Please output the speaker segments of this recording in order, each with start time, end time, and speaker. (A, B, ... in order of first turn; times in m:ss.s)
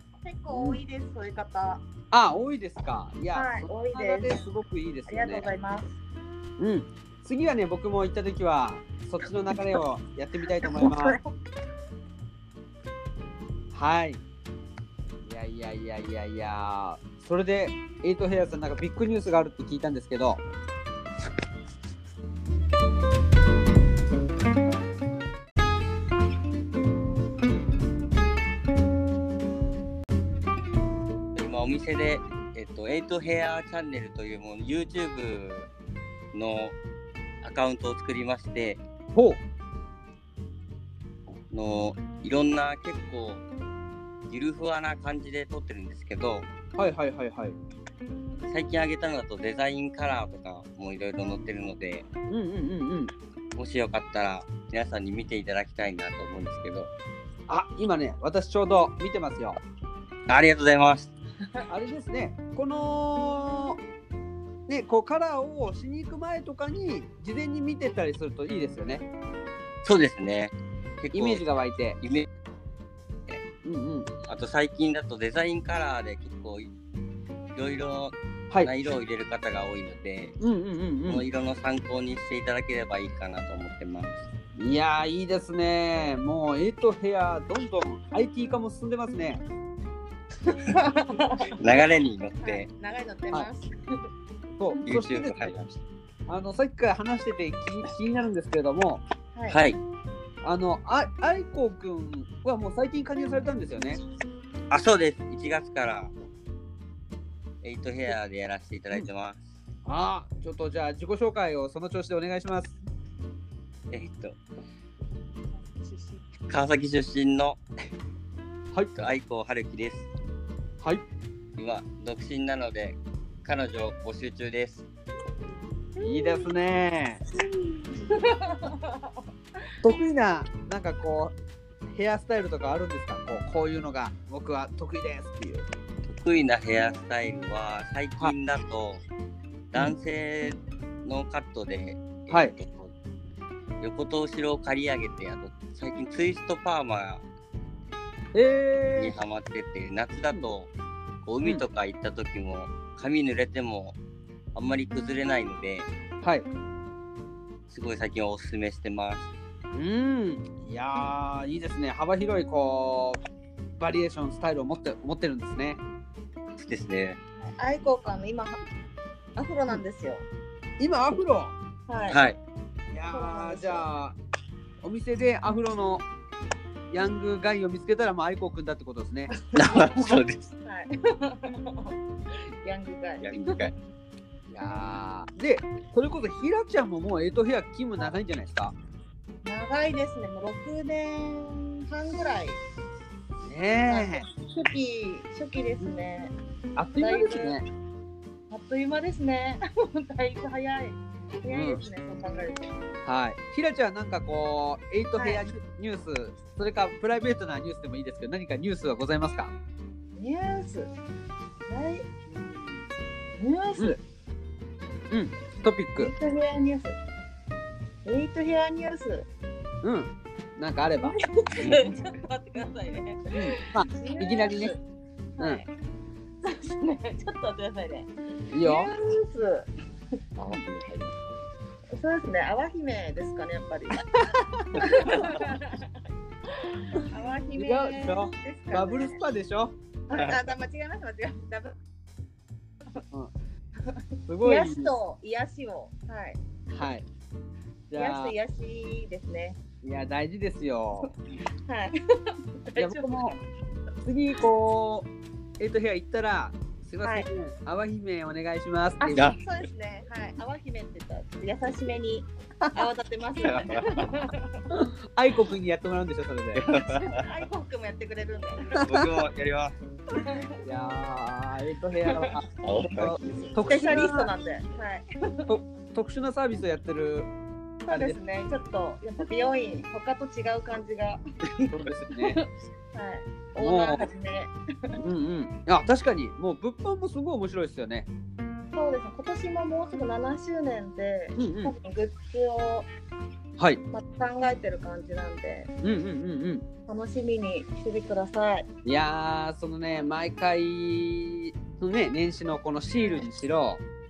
0:00.2-0:01.8 A
0:00.5-0:00.8 B
0:02.1-0:05.5 B
0:03.3-0:04.5 A
0:05.1-0:06.0 A
0:06.6-0:11.2 B
0:10.6-0:11.3 A
0:13.7-0:14.2 B
0:15.2-0:20.4 B
0:31.4-0:35.7 C
0:36.3-0:36.7 C
0:37.4-0:38.8 C
0:39.1-0:39.4 B
0:41.5-0:43.4 C
0:44.3-0:46.5 C
0:46.8-0:47.6 B
0:48.5-0:52.1 C
0:52.3-0:53.1 B
0:53.6-0:56.9 C
0:57.5-0:59.6 B
1:00.3-1:01.1 C
1:01.7-1:03.8 B
1:04.7-1:09.0 B
1:09.8-1:12.3 C
1:11.1-1:12.0 B
1:13.6-1:14.1 B
1:14.2-1:16.7 C
1:17.5-1:20.4 C
1:20.4-1:21.2 B
1:21.1-1:24.2 C
1:24.6-1:29.4 B
1:30.5-1:31.5 A
1:31.6-1:32.7 C
1:32.4-1:33.7 A
1:34.6-1:35.5 B
1:34.8-1:35.8 C
1:36.3-1:39.0 B
1:39.3-1:39.6 A
1:39.5-1:39.8 C
1:40.4-1:44.0 B
1:44.7-1:46.1 C
1:47.6-1:49.4 C
1:49.8-1:52.7 B
1:53.9-1:54.4 C
1:55.6-1:56.2 A
1:56.5-1:57.6 C
1:58.9-2:00.1 C
2:01.6-2:04.8 C
2:06.0-2:06.5 A
2:06.0-2:07.2 B
2:07.3-2:09.1 A
2:09.8-2:11.3 B
2:11.9-2:15.7 B
2:16.0-2:19.0 C
2:19.7-2:22.9 C
2:23.8-2:27.2 C
2:28.3-2:29.2 B
2:29.0-2:30.7 C
2:31.2-2:34.0 C
2:34.5-2:35.9 C
2:37.7-2:39.3 C
2:39.7-2:43.2 B
2:43.8-2:45.8 B
2:46.6-2:47.2 C
2:47.4-2:48.6 A
2:49.4-2:50.2 A
2:50.8-2:51.5 B
2:51.9-2:52.2 A
2:52.1-2:52.4 C
2:52.9-2:54.2 B
2:53.1-2:53.9 A
2:54.8-2:56.0 B
2:56.9-2:59.3 B
2:59.5-3:02.0 A
2:59.5-3:00.4 C
3:02.6-3:03.7 A
3:03.2-3:03.7 C
3:04.5-3:08.7 B
3:09.4-3:12.6 A
3:13.4-3:14.2 B
3:13.9-3:16.3 A
3:16.8-3:17.6 B
3:17.0-3:17.6 A
3:18.5-3:22.7 A
3:21.5-3:21.8 B
3:23.0-3:29.5 B
3:25.1-3:25.4 A
3:30.2-3:30.9 A
3:31.7-3:32.2 A
3:32.3-3:32.7 B
3:33.4-3:34.0 A
3:35.1-3:36.1 B
3:36.0-3:37.0 A
3:38.0-3:39.3 A
3:39.8-3:41.2 B
3:41.0-3:44.8 A
3:41.6-3:41.9 C
3:43.3-3:44.7 B
3:45.4-3:45.7 A
3:46.4-3:49.7 A
3:48.5-3:48.9 B
3:50.4-3:51.1 C
3:51.9-3:54.0 A
3:54.7-3:55.9 A
3:57.0-3:59.2 A
3:57.5-3:59.7 B
4:00.1-4:01.8 A
4:03.9-4:06.4 A
4:04.3-4:04.9 B
4:06.7-4:07.0 B
4:07.9-4:08.3 B
4:07.9-4:09.6 A
4:09.8-4:11.1 B
4:11.7-4:11.9 A
4:12.6-4:13.4 A
4:12.8-4:13.4 B
4:14.0-4:19.3 B
4:17.0-4:17.3 A
4:19.0-4:24.5 A
4:19.1-4:19.4 C
4:23.4-4:24.2 C
4:24.7-4:26.6 B
4:26.5-4:27.2 C
4:26.8-4:28.8 A
4:28.8-4:29.7 C
4:30.1-4:30.5 A
4:30.6-4:34.3 B
4:32.1-4:32.3 A
4:32.6-4:33.5 C
4:33.6-4:35.4 A
4:35.5-4:37.3 B
4:37.9-4:41.2 A
4:37.9-4:38.2 B
4:41.7-4:42.4 B
4:42.2-4:44.5 A
4:43.6-4:44.1 B
4:45.0-4:48.1 B
4:48.7-4:52.9 A
4:51.4-4:51.8 B
4:53.9-4:55.7 A
4:55.8-4:56.6 B
4:56.8-4:58.7 A
4:58.8-5:03.8 B
5:03.0-5:03.2 A